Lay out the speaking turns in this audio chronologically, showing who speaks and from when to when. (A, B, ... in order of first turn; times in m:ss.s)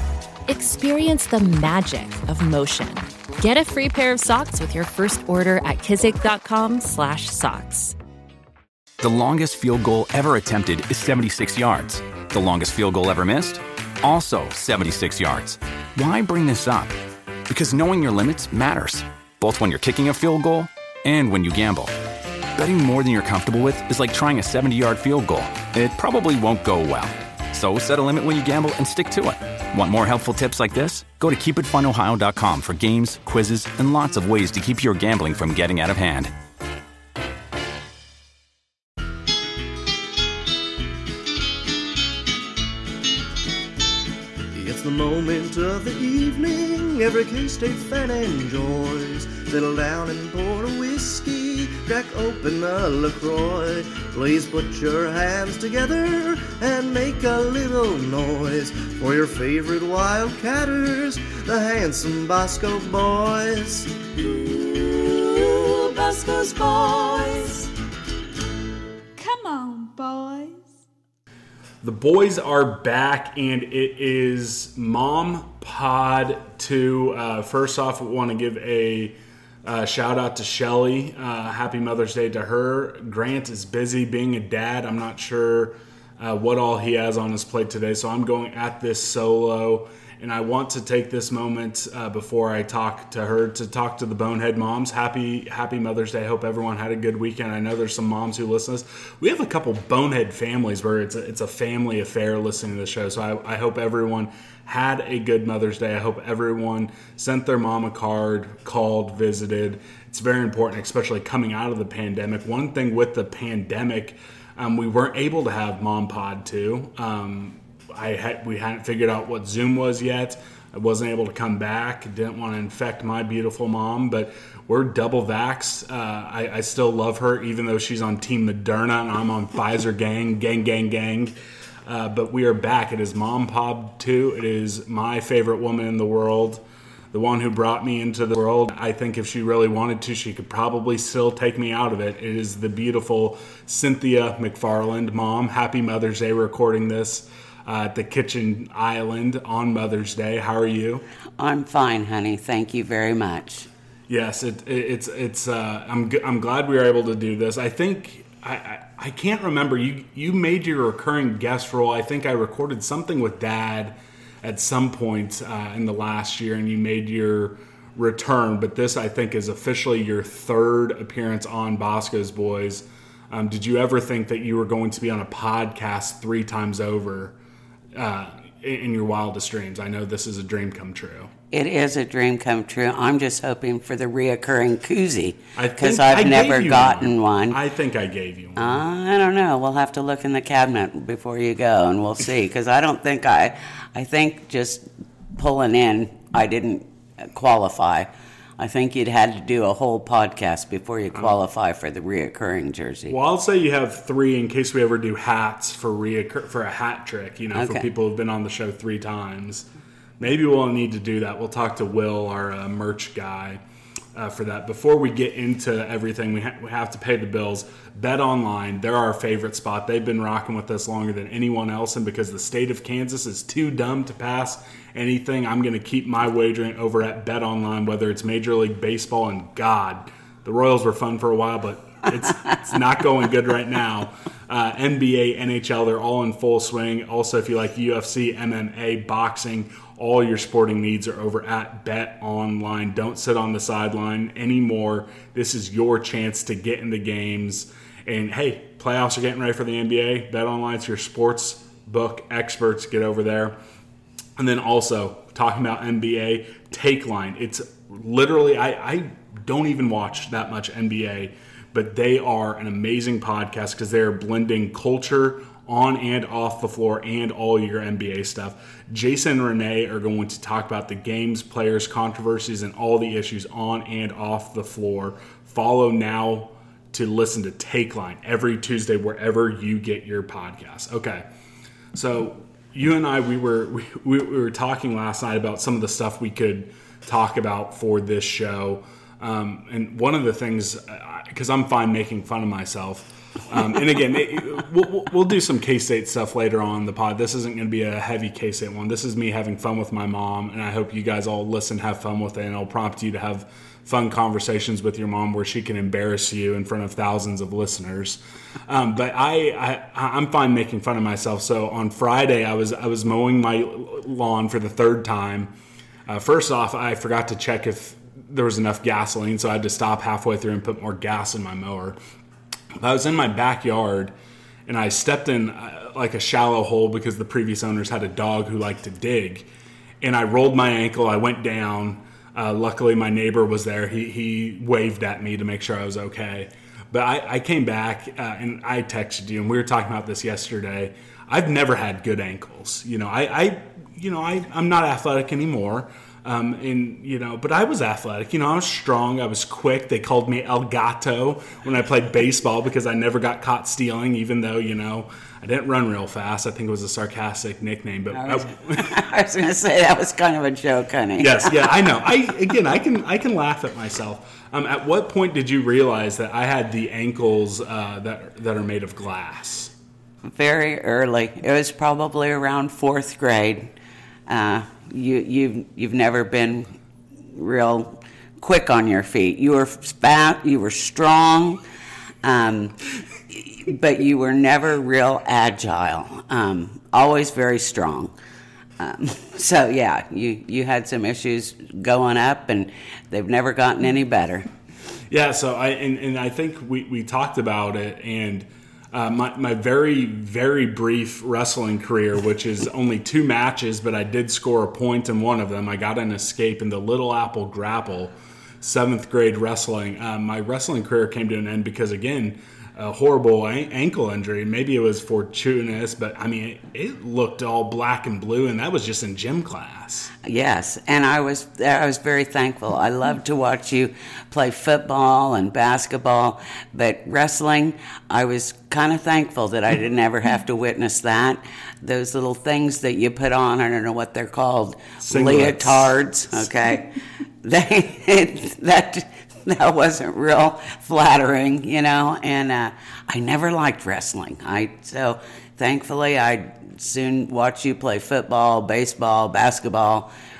0:00.5-0:08.0 A
0:09.0-0:17.0 B
0:17.5-0:21.9 B
0:22.6-0:36.3 B
0:44.5-1:04.0 C
1:06.0-1:06.6 D
1:09.2-1:10.5 D
1:11.8-2:11.3 E
2:11.9-2:31.1 E
2:31.4-2:33.7 F
2:34.1-2:57.4 E
2:58.0-3:01.3 E
3:01.5-3:07.6 F
3:05.6-3:08.8 E
3:08.6-3:23.2 F
3:23.1-3:29.7 E
3:27.5-3:27.9 F
3:30.2-3:33.6 E
3:34.2-4:13.6 E
4:14.4-4:41.3 E
4:41.9-5:15.5 E
5:16.1-5:22.0 E
5:22.8-5:24.1 E
5:24.7-5:29.5 E
5:30.0-5:58.9 E
5:58.1-6:01.7 F
6:01.2-6:09.7 E
6:10.2-6:13.7 F
6:14.3-6:16.7 F
6:17.3-6:21.6 F
6:22.2-6:22.8 F
6:23.3-6:28.1 F
6:28.8-6:34.5 F
6:35.1-7:00.1 E
7:00.2-7:16.9 F
7:15.0-7:15.9 E
7:17.4-7:30.1 F